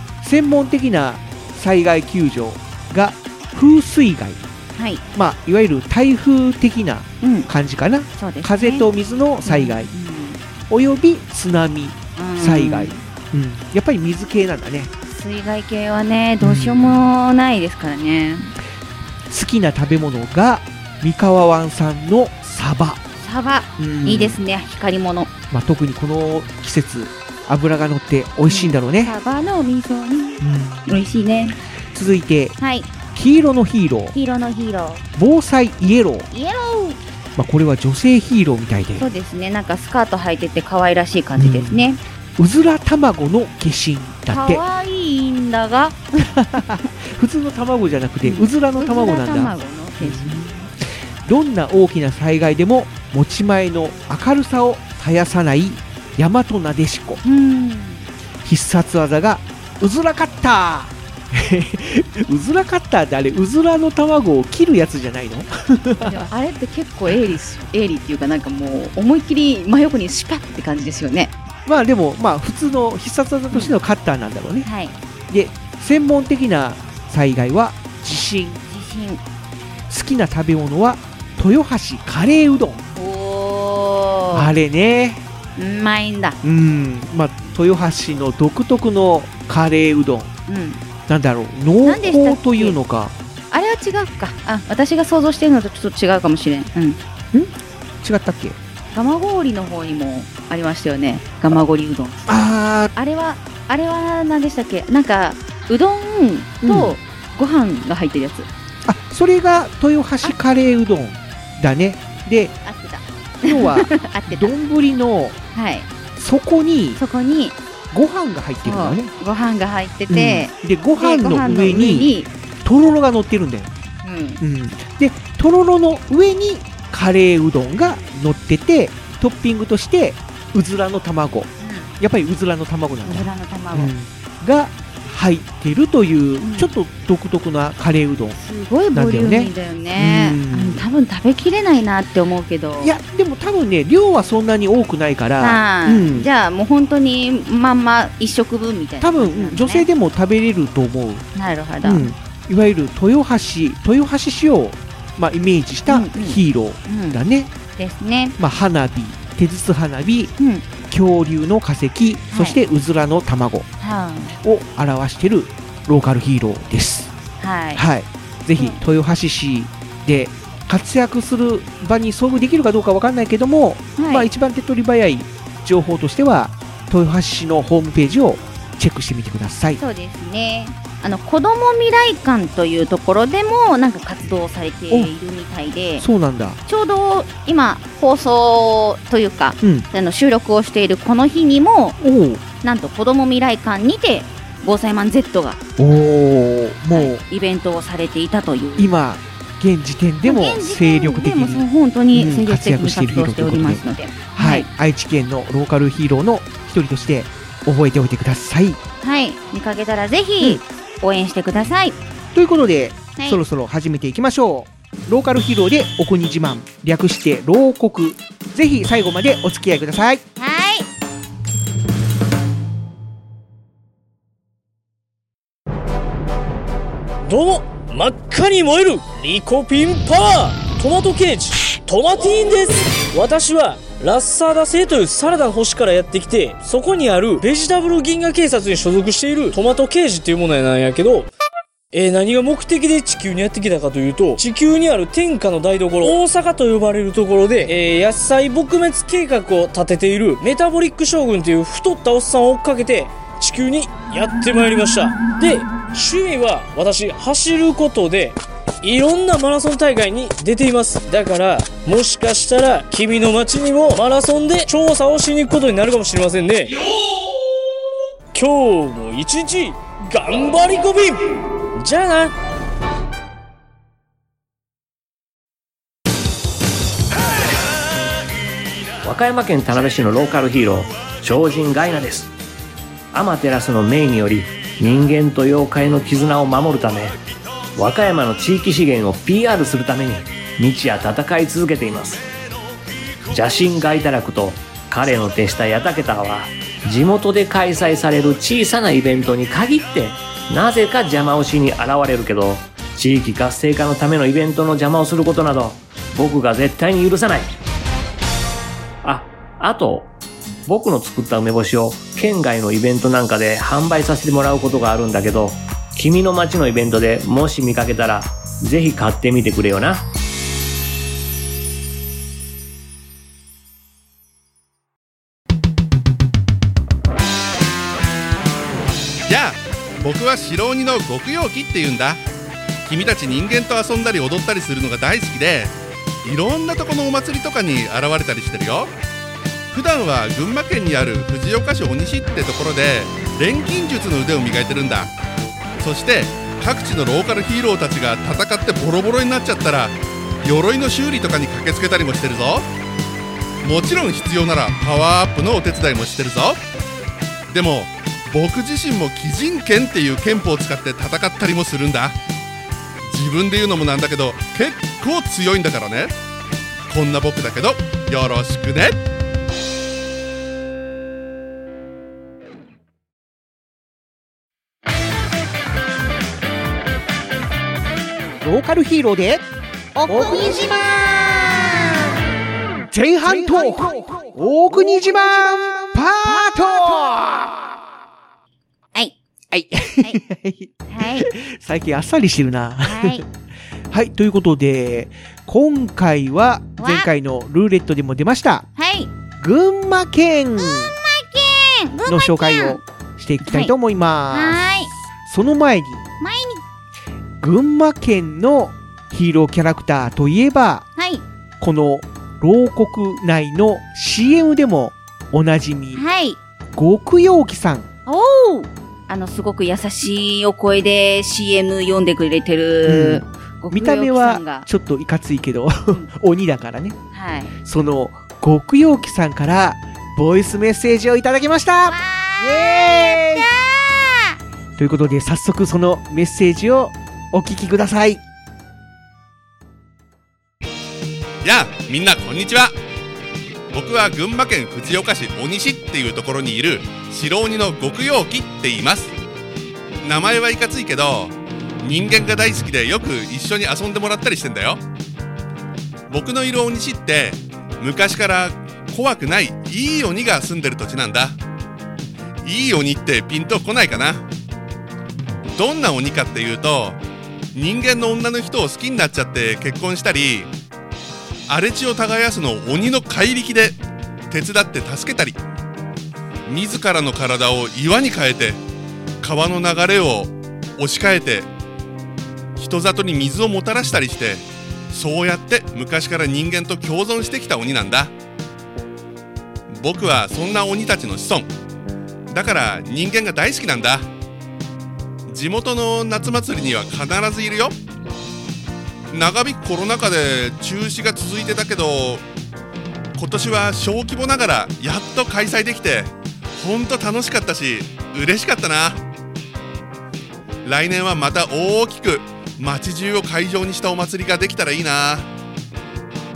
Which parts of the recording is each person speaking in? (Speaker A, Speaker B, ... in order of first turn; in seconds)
Speaker A: 0.2-4.4, 5.1-9.9, 10.7-14.9, 16.4-17.1, 19.3-23.0, 23.8-24.4, 25.5-29.1, 30.4-31.0, 31.9-32.6, 33.1-34.1, 35.1-36.3, 37.4-39.1, 41.4-41.9, 42.4-44.6, 46.2-50.6, 51.2-57.2, 58.4-66.2, 71.7-74.7, 75.3-78.6, 79.9-82.8, 84.3-85.2, 86.4-90.3, 91.1-93.1, 97.3-98.6, 102.3-102.9, 106.6-107.0, 108.8-112.5, 113.4-115.4, 116.2-117.0, 117.9-119.1, 120.1-122.1, 122.6-123.7, 124.4-138.4, 138.9-140.8, 142.8-146.3, 149.0-151.2, 151.8-157.5, 158.4-160.3, 160.9-163.7, 164.4-167.1, 167.8-179.8, 186.0-186.6, 189.6-189.9, 192.0-192.4, 195.8-197.2, 198.8-208.8, 212.3-220.2, 378.4-379.4, 380.1-380.7, 382.9-387.6, 389.5-393.2, 393.9-398.6, 399.4-400.9, 402.1-404.6, 405.2-406.0, 407.4-410.9, 411.6-416.0, 416.7-417.9, 422.8-426.9, 427.6-433.5, 434.8-438.2
Speaker B: 4.8-5.0, 7.2-7.5, 8.2-8.9, 9.4-10.4, 12.2-13.0, 15.1-18.5, 23.2-25.3, 28.5-31.6, 32.6-32.9, 34.1-35.0, 36.3-37.0, 39.0-42.0, 44.3-46.2, 48.2-50.6, 57.2-58.0, 66.0-71.3, 74.6-75.0, 78.7-79.2, 83.0-84.5, 85.5-86.4, 90.5-90.8, 91.8-92.8, 93.5-97.0, 98.9-102.4, 102.9-108.5, 112.6-114.5, 115.5-115.9, 117.0-117.6, 118.6-122.3, 124.0-124.4, 131.6-131.9, 133.0-133.9, 136.4-136.7, 138.3-142.9, 145.4-149.9, 151.3-152.1, 155.9-157.2, 157.8-158.3, 160.4-160.6, 162.3-162.6, 163.8-164.3, 167.4-167.8, 174.0-174.3, 179.8-186.0, 186.7-192.0, 192.6-195.6, 196.9-198.9, 200.2-204.7, 209.0-212.0, 220.4-220.9, 379.9-382.0, 390.9-391.3, 392.8-393.2, 396.8-397.1, 398.8-399.1, 400.6-402.8, 403.4-403.7, 404.3-404.9, 406.2-406.6, 411.0-411.2, 415.9-416.4, 418.1-424.7, 427.1-427.5, 431.9-434.4
Speaker C: 227.2-241.3, 241.9-266.8, 268.3-271.2, 271.8-272.3
Speaker D: 279.0-282.3, 283.1-287.1, 287.7-292.2, 293.3-307.5, 309.0-310.1, 310.6-320.1
Speaker E: 329.3-332.2, 332.9-338.9, 339.7-345.1, 345.8-352.7, 353.6-356.6, 357.5-362.1, 363.1-366.1, 366.9-369.0, 441.4-442.7, 443.7-449.1, 450.0-454.8, 456.1-461.4, 462.4-464.2, 465.5-467.0, 467.5-470.5, 471.5-473.8, 474.3-475.4, 476.5-478.6, 479.2-481.5, 482.6-488.1, 489.7-491.5, 492.3-494.1, 495.3-497.7, 499.1-502.2, 503.2-509.0, 510.6-515.3